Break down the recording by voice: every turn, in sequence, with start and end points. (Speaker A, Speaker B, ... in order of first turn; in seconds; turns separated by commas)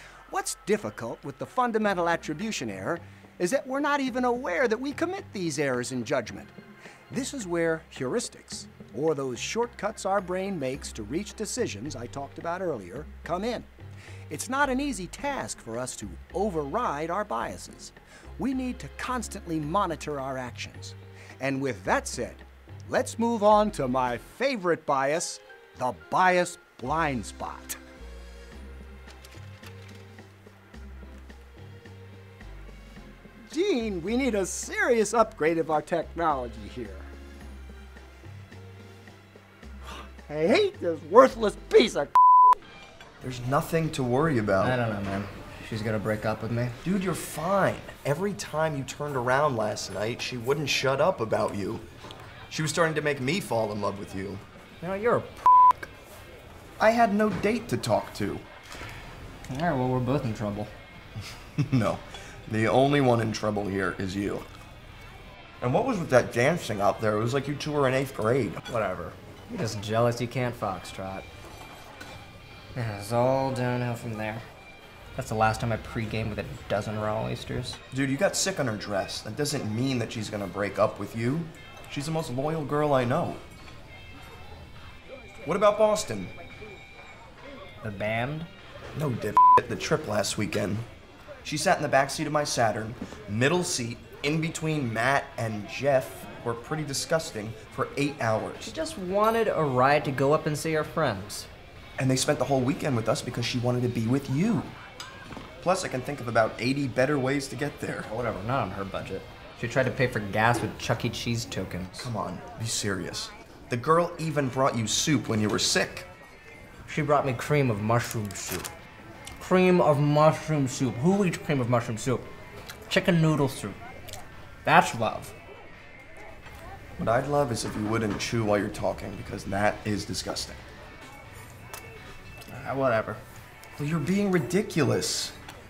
Speaker A: 0.3-6.5, Speaker A: 7.1-13.7, Speaker A: 14.3-27.8, Speaker A: 33.5-37.1, Speaker A: 40.2-42.1, Speaker B: 43.2-44.8, Speaker C: 44.6-46.8, Speaker B: 46.8-51.9, Speaker B: 52.5-54.4, Speaker C: 54.8-55.5, Speaker B: 56.8-58.4, Speaker C: 59.5-60.7, Speaker B: 61.6-64.5, Speaker B: 65.6-68.6, Speaker C: 68.7-71.3, Speaker C: 72.7-74.4, Speaker C: 75.1-77.8, Speaker B: 77.9-83.4, Speaker B: 85.4-86.3, Speaker C: 87.8-88.5, Speaker B: 88.9-90.9, Speaker B: 91.4-98.7, Speaker C: 98.6-101.5, Speaker B: 102.0-104.8, Speaker B: 105.6-108.1, Speaker C: 108.0-112.1, Speaker B: 112.0-116.1, Speaker C: 116.9-118.7, Speaker C: 119.4-122.3, Speaker C: 122.9-123.8, Speaker C: 124.6-125.3, Speaker B: 127.0-130.6, Speaker C: 132.5-133.2, Speaker B: 133.8-135.4